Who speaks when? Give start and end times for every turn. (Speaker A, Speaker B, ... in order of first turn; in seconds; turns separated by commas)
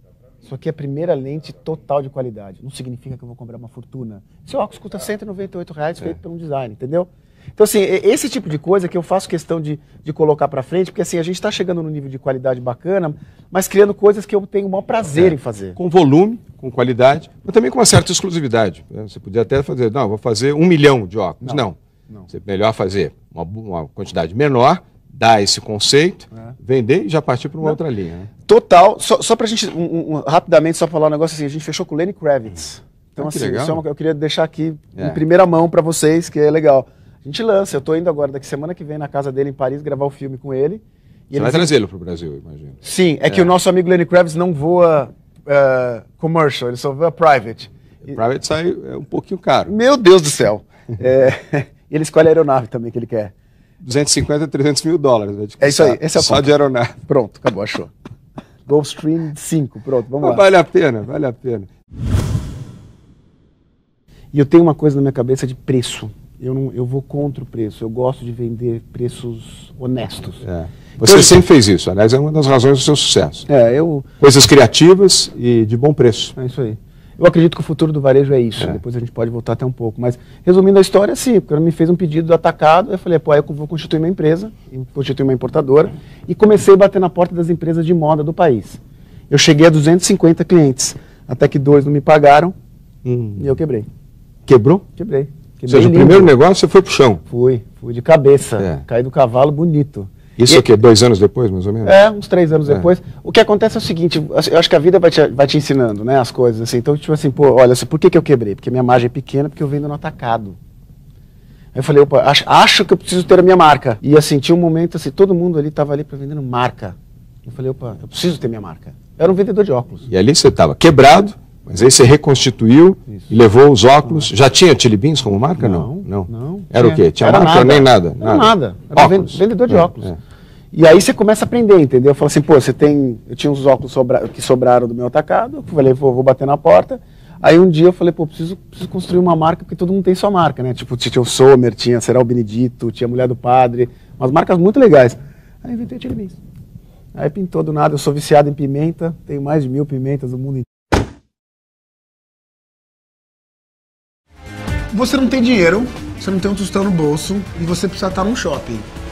Speaker A: 0.4-15.8, Speaker B: 15.2-21.8, Speaker A: 21.4-22.3, Speaker B: 22.3-28.3, Speaker A: 28.4-41.7, Speaker B: 33.1-33.8, Speaker B: 35.0-35.2, Speaker B: 41.3-43.5, Speaker A: 42.8-48.1, Speaker B: 48.1-49.7, Speaker A: 49.6-53.3, Speaker B: 53.8-56.9, Speaker A: 55.6-57.9, Speaker A: 58.7-60.4, Speaker B: 60.2-61.7, Speaker A: 64.3-70.4, Speaker B: 70.4-73.5, Speaker A: 71.0-71.4, Speaker A: 73.5-74.1, Speaker B: 74.2-76.3, Speaker A: 76.3-92.5, Speaker B: 93.0-93.5, Speaker A: 93.4-93.9, Speaker B: 94.5-94.8, Speaker A: 95.0-96.3, Speaker B: 95.7-97.2, Speaker A: 97.2-100.6, Speaker B: 100.4-102.0, Speaker A: 101.8-110.6, Speaker A: 111.7-120.1, Speaker B: 120.1-130.2, Speaker A: 125.6-130.1, Speaker A: 130.7-146.4, Speaker A: 147.1-150.7, Speaker C: 154.9-158.8